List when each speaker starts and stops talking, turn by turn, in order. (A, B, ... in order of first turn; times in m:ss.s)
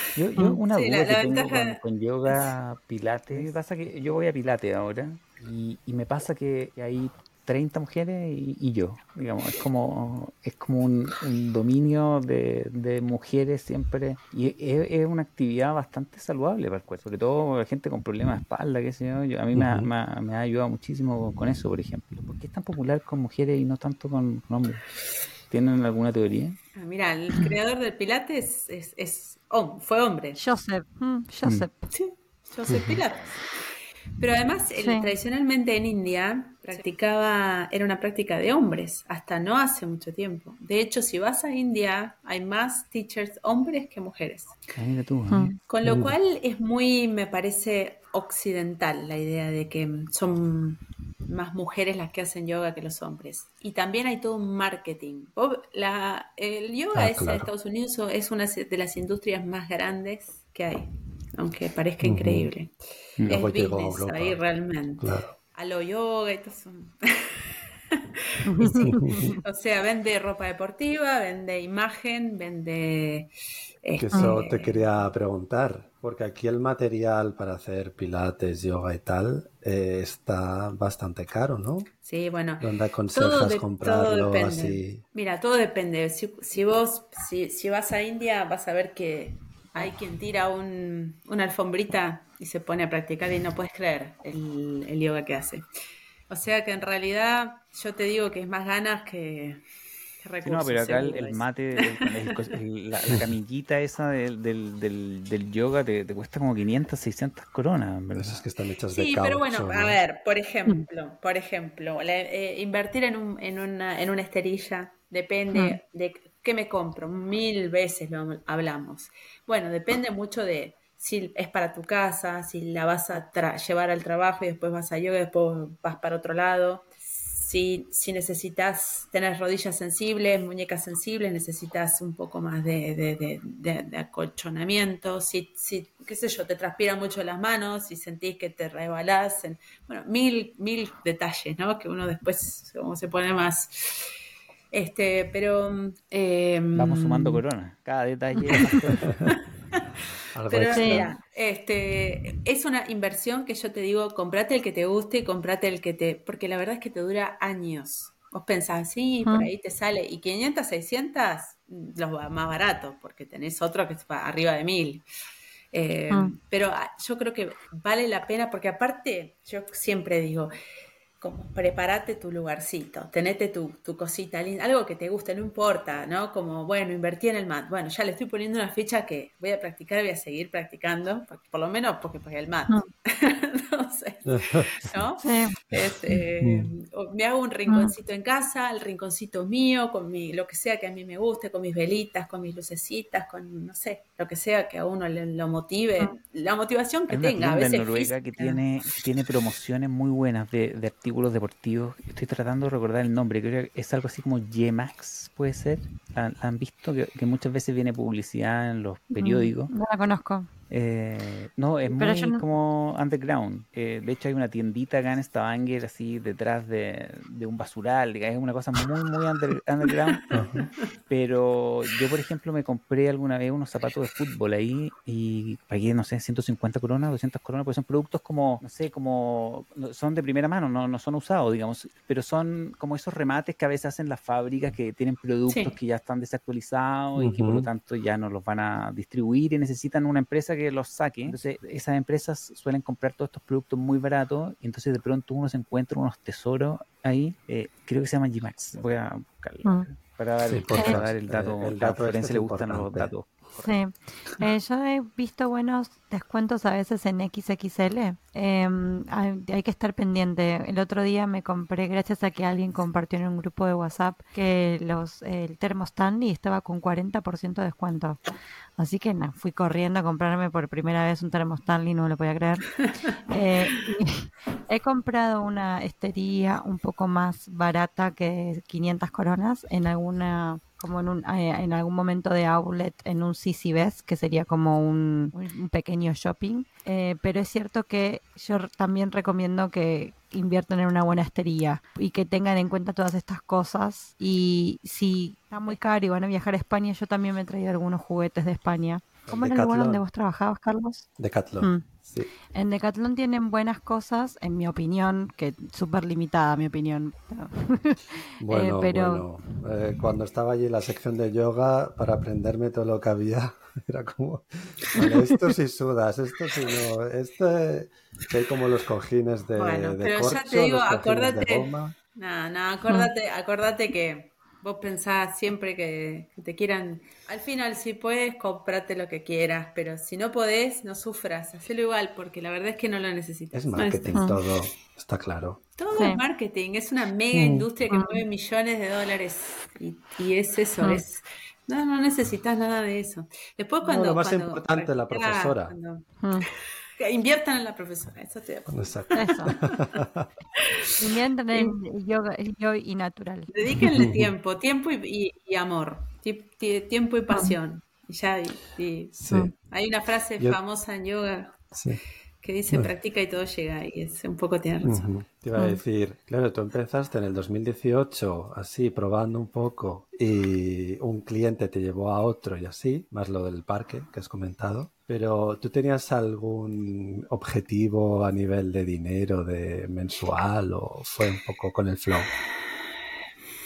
0:00.1-0:26.6 A
0:00.7-0:02.5 B
0:19.5-0:19.9 C
0:26.7-0:30.4 B
0:30.4-0:31.9 D
0:31.9-0:33.6 B
0:32.7-0:33.0 C
0:34.2-0:44.6 B
0:34.8-0:35.1 D
0:44.7-0:45.5 A
0:45.3-0:45.6 D
0:45.7-1:13.3 B
0:45.8-0:46.1 C
0:56.9-0:57.5 C
1:02.0-1:02.5 C
1:03.3-1:04.4 C
1:05.0-1:05.3 C
1:08.4-1:09.4 D
1:13.8-1:14.9 B
1:14.0-1:21.9 C
1:22.0-1:35.6 B
1:22.6-1:25.0 C
1:36.3-1:39.6 B
1:40.2-1:42.5 B
1:40.4-1:48.4 A
1:48.1-1:50.0 C
1:48.9-2:24.2 B
1:55.5-1:55.8 D
2:24.7-2:27.4 B
2:26.7-2:29.1 A
2:28.9-2:29.3 C
2:30.3-2:31.1 C
2:30.5-2:45.0 B
2:30.7-2:31.1 D
2:39.2-2:39.5 D
2:45.7-2:50.5 B
2:51.2-3:18.6 B
3:04.3-3:04.7 C
3:05.2-3:05.5 D
3:06.4-3:06.7 C
3:07.7-3:07.9 D
3:17.1-3:29.7 A
3:29.1-3:30.5 D
3:30.7-3:40.4 A
3:31.9-3:32.4 D
3:40.3-3:40.7 C
3:41.1-4:13.8 A
3:55.5-3:55.7 B
3:57.2-3:57.7 C
4:10.4-4:13.1 C
4:13.6-4:28.2 D
4:28.8-5:01.1 D
4:59.3-5:00.0 C
5:01.2-5:02.3 C
5:01.6-5:01.8 D
5:02.5-5:09.2 D
5:08.4-5:21.9 C
5:19.6-5:34.4 B
5:33.5-5:35.6 C
5:35.8-5:49.8 B
5:35.9-5:36.2 D
5:37.3-5:37.7 C
5:37.9-5:38.2 D
5:43.8-5:45.7 C
5:46.2-5:46.5 D
5:48.7-5:50.3 C
5:49.2-5:49.5 D
5:51.0-5:53.5 D
5:53.5-6:01.7 B
5:53.8-5:54.3 C
5:59.2-5:59.5 C
6:01.7-6:02.0 C
6:02.4-6:05.1 B
6:04.8-6:22.3 C
6:05.5-6:05.8 D